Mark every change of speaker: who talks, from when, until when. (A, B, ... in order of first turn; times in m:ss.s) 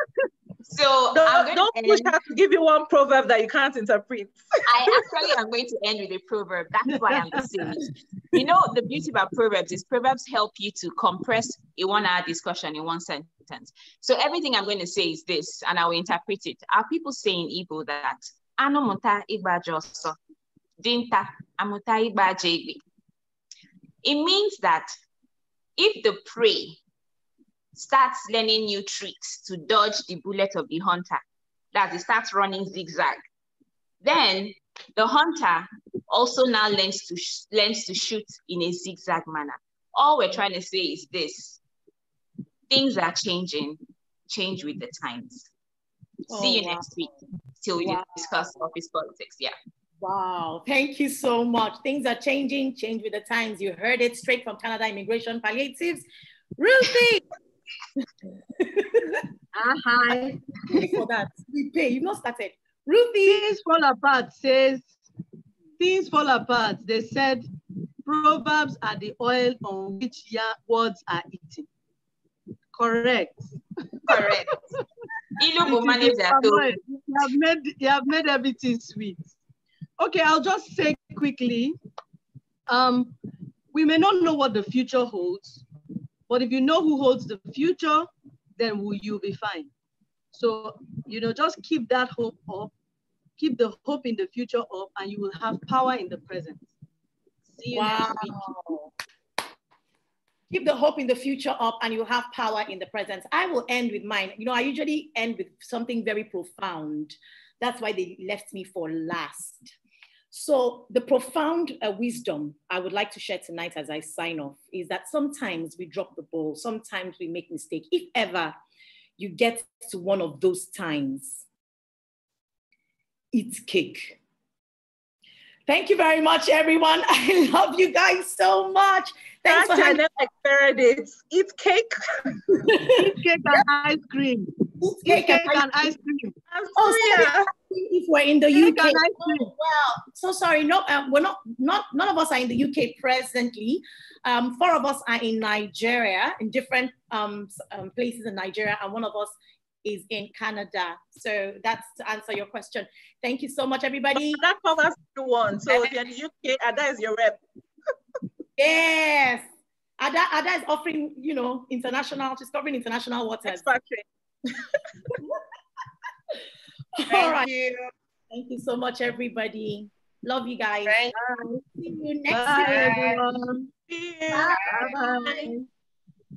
0:00.7-0:02.1 A
0:01.1-0:05.1 B
0:04.7-0:20.2 A
0:07.1-0:07.8 C
0:20.8-0:22.8 A
0:24.0-0:24.9 A
0:25.8-0:26.8 A
0:27.7-0:33.3 A
0:34.0-0:41.6 A
0:42.7-0:45.5 A
0:46.3-0:47.1 D
0:46.3-0:49.5 A
0:47.8-0:48.1 D
0:50.0-0:56.0 D
0:56.6-0:57.2 D
0:58.6-0:59.2 D
0:59.5-1:01.0 C
1:00.7-1:03.5 D
1:03.2-1:05.0 C
1:05.8-1:07.5 C
1:08.0-1:11.7 C
1:12.7-1:14.8 C
1:14.1-1:14.6 A
1:15.4-1:16.7 A
1:15.6-1:19.4 C
1:20.0-1:21.8 C
1:22.7-1:23.1 C
1:23.7-1:25.6 C
1:26.3-1:29.7 C
1:30.3-1:32.7 C
1:33.4-1:36.7 C
1:37.5-1:38.6 C
1:37.7-1:38.9 D
1:40.5-1:49.7 D
1:50.3-1:58.5 D
1:59.2-2:01.4 D
2:03.3-2:04.2 D
2:05.7-2:10.0 D
2:09.5-2:12.6 B
2:12.6-2:13.6 D
2:12.9-2:16.3 C
2:14.8-2:15.9 D
2:16.5-2:17.5 B
2:16.8-2:34.4 D
2:18.5-2:19.5 C
2:34.2-2:37.4 B
2:38.6-2:39.4 D
2:40.0-2:43.6 D
2:43.4-2:44.0 B
2:47.0-2:47.5 D
2:47.1-2:47.9 E
2:48.3-2:51.0 D
2:50.8-2:51.1 E
2:51.1-2:53.7 C
2:51.8-2:53.0 D
2:52.6-2:53.2 E
2:53.9-2:54.6 B
2:54.5-2:55.6 C
2:54.5-2:55.4 E